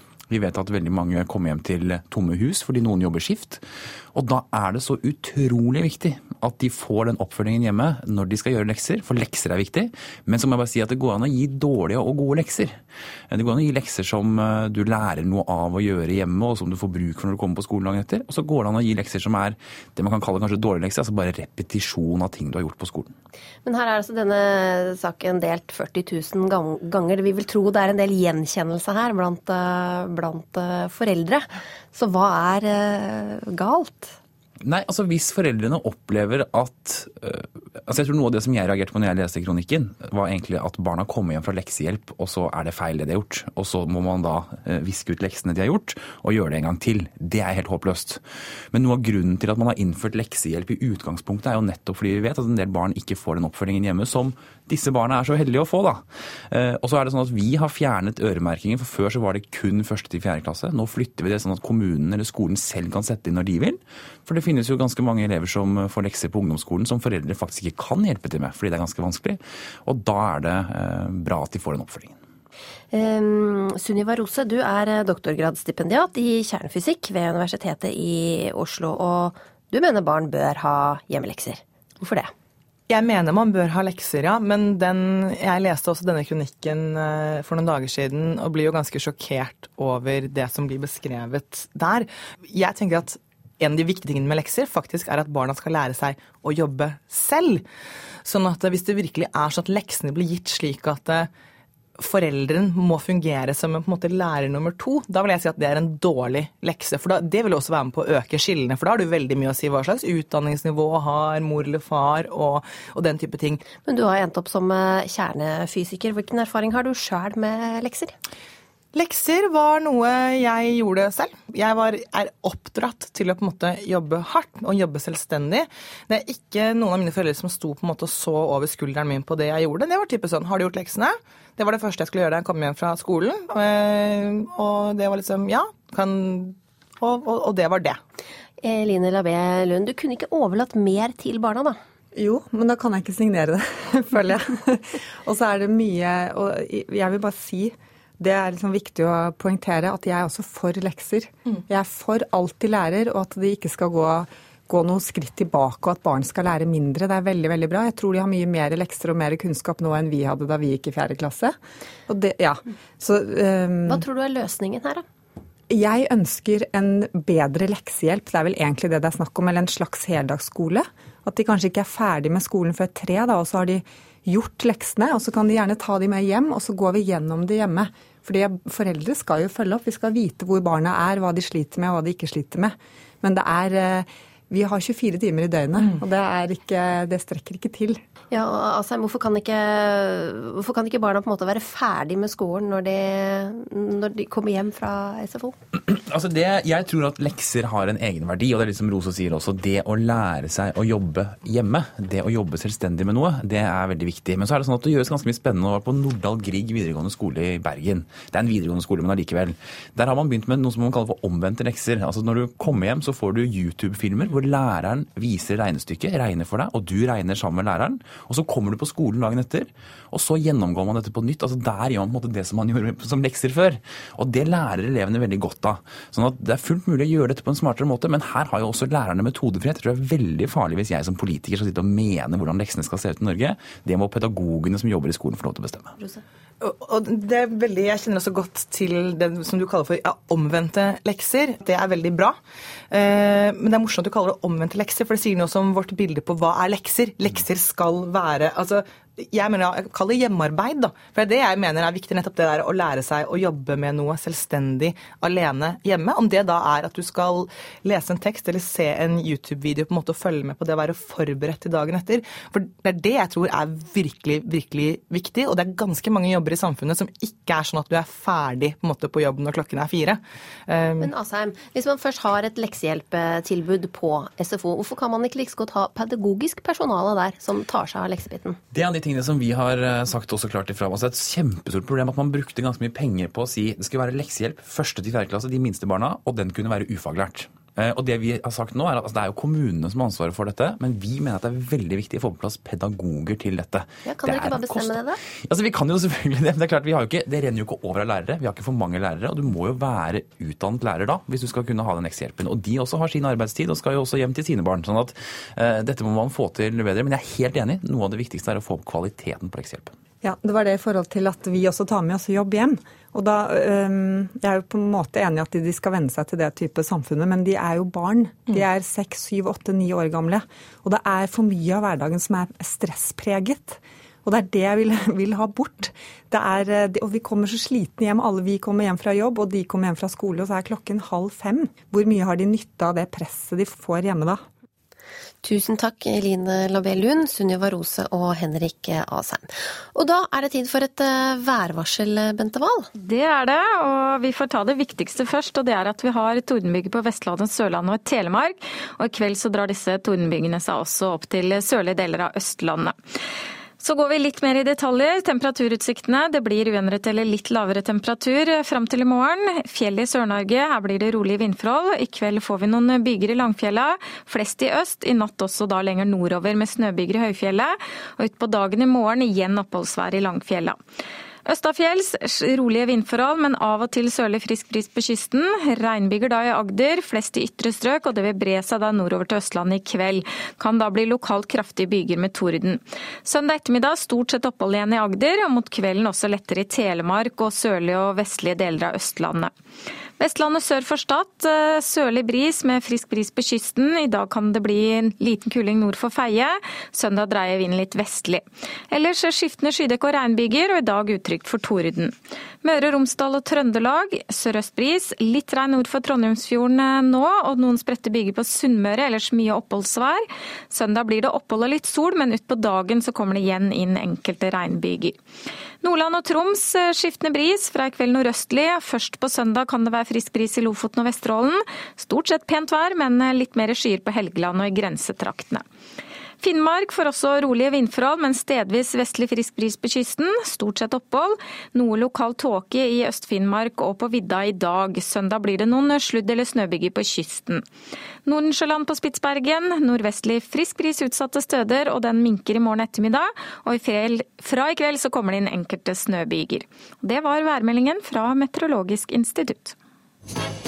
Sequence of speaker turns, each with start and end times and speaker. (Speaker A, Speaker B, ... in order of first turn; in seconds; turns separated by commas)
Speaker A: 0.3-23.1, Speaker B: 23.6-34.2, Speaker A: 34.6-72.2, Speaker B: 72.9-82.3, Speaker C: 82.9-97.6, Speaker C: 98.2-101.3, Speaker C: 102.0-113.6, Speaker B: 113.8-118.2, Speaker C: 118.9-138.0, Speaker B: 138.6-141.8, Speaker D: 142.2-161.6, Speaker D: 162.1-164.0, Speaker B: 163.9-165.1, Speaker D: 165.7-188.0, Speaker B: 188.3-195.6, Speaker A: 195.8-235.9, Speaker C: 236.6-242.4, Speaker C: 242.9-271.1, Speaker B: 271.0-278.6, Speaker A: 278.7-309.9, Speaker B: 294.1-295.2, Speaker D: 310.2-334.4, Speaker B: 335.4-342.9, Speaker E: 343.0-353.0, Speaker E: 353.8-370.8, Speaker E: 371.5-389.5, Speaker E: 390.2-415.2, Speaker E: 415.8-425.6, Speaker E: 426.4-437.6, Speaker E: 438.3-449.8